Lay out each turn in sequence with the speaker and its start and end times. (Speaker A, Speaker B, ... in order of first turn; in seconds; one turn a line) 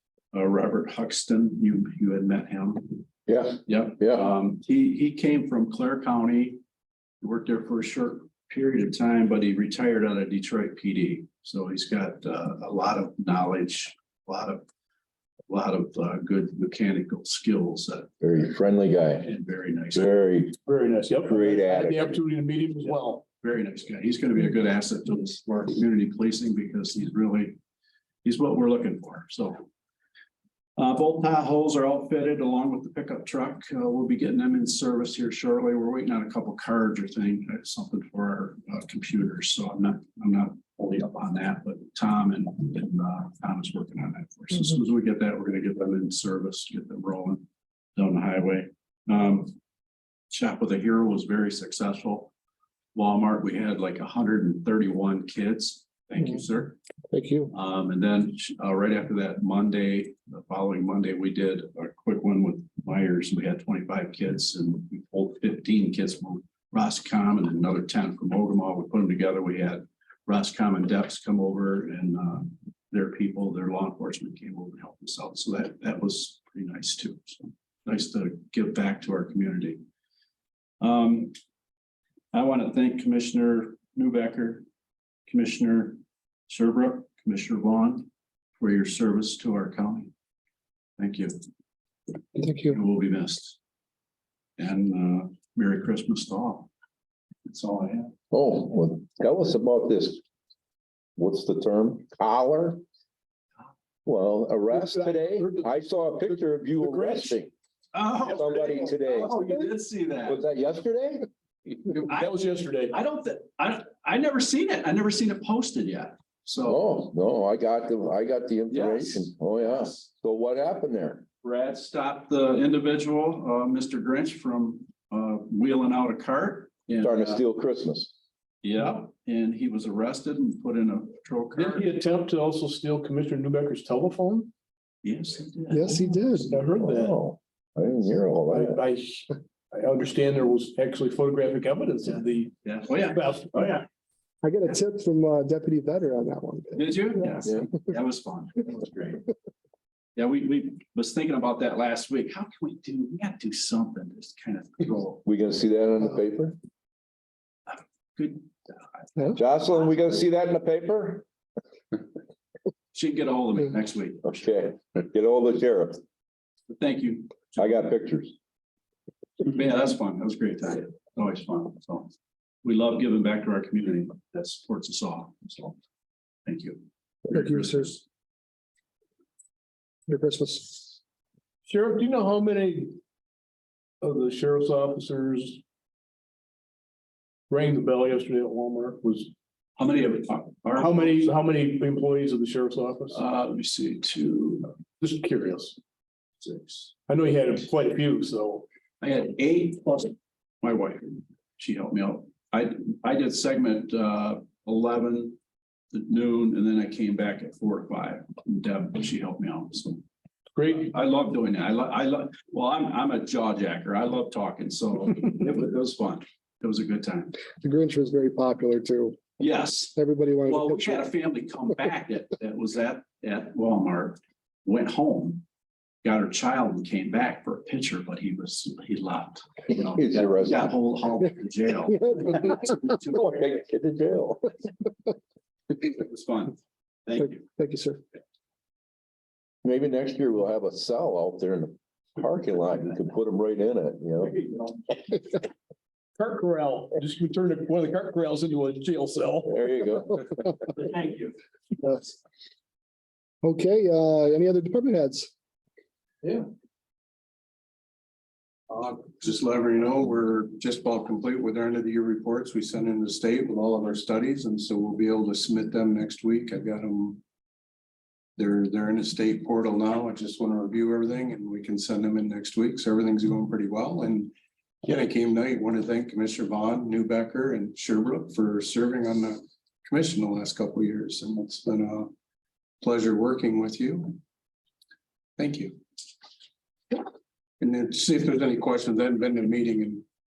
Speaker A: 0.3-3.0
Speaker B: 3.3-4.3
Speaker A: 3.7-6.6
Speaker A: 7.2-14.6
Speaker A: 15.5-18.1
Speaker B: 18.2-19.3
Speaker A: 19.2-20.1
Speaker B: 19.9-20.6
Speaker C: 20.7-23.2
Speaker B: 21.3-22.2
Speaker A: 23.2-27.6
Speaker A: 28.2-29.7
Speaker A: 30.8-47.5
Speaker A: 48.0-49.6
Speaker A: 50.3-52.3
Speaker A: 53.0-56.8
Speaker D: 57.1-57.5
Speaker A: 57.5-79.8
Speaker A: 80.8-81.4
Speaker A: 82.3-84.7
Speaker A: 85.3-90.1
Speaker A: 91.0-91.4
Speaker D: 92.4-92.8
Speaker A: 92.6-93.6
Speaker A: 94.6-96.7
Speaker A: 97.5-98.1
Speaker B: 98.3-100.2
Speaker B: 101.2-102.8
Speaker B: 104.0-107.5
Speaker C: 104.7-105.7
Speaker C: 106.2-107.3
Speaker A: 107.9-110.4
Speaker B: 108.3-109.4
Speaker B: 110.3-111.3
Speaker A: 111.8-112.4
Speaker C: 111.9-113.0
Speaker A: 112.9-116.8
Speaker B: 116.7-121.2
Speaker A: 118.7-120.1
Speaker A: 121.4-127.4
Speaker B: 127.0-128.1
Speaker A: 128.6-131.9
Speaker C: 131.6-134.5
Speaker A: 135.0-136.5
Speaker D: 135.7-136.5
Speaker C: 136.4-137.2
Speaker B: 136.5-138.8
Speaker C: 138.5-143.8
Speaker A: 142.6-143.8
Speaker D: 144.4-147.1
Speaker A: 146.8-149.2
Speaker A: 150.2-155.2
Speaker B: 155.2-156.6
Speaker A: 157.7-159.9
Speaker B: 159.3-161.3
Speaker A: 162.9-164.5
Speaker B: 164.2-166.0
Speaker A: 166.7-167.6
Speaker B: 167.6-168.3
Speaker A: 169.4-172.1
Speaker A: 172.6-175.8
Speaker A: 176.5-178.0
Speaker D: 177.3-177.9
Speaker D: 180.1-181.0
Speaker C: 181.7-183.0
Speaker C: 184.0-185.6
Speaker C: 187.5-189.3
Speaker A: 189.8-191.3
Speaker C: 190.8-193.2
Speaker A: 193.1-194.7
Speaker C: 195.0-195.8
Speaker A: 196.4-196.9
Speaker C: 197.1-198.7
Speaker A: 199.0-205.4
Speaker A: 205.9-210.0
Speaker C: 210.6-210.9
Speaker A: 210.7-217.4
Speaker D: 217.6-219.2
Speaker A: 219.4-225.4
Speaker D: 219.9-221.1
Speaker A: 226.0-233.5
Speaker B: 229.7-230.6
Speaker B: 233.1-234.5
Speaker A: 235.8-237.5
Speaker D: 237.2-238.0
Speaker B: 239.6-244.4
Speaker A: 244.2-245.0
Speaker C: 246.2-249.6
Speaker B: 249.5-250.4
Speaker A: 250.7-251.3
Speaker D: 251.8-252.2
Speaker D: 253.4-255.3
Speaker E: 258.7-267.2
Speaker E: 268.4-274.3
Speaker E: 274.8-282.1
Speaker E: 282.8-284.2
Speaker E: 285.4-285.8
Speaker E: 287.6-290.1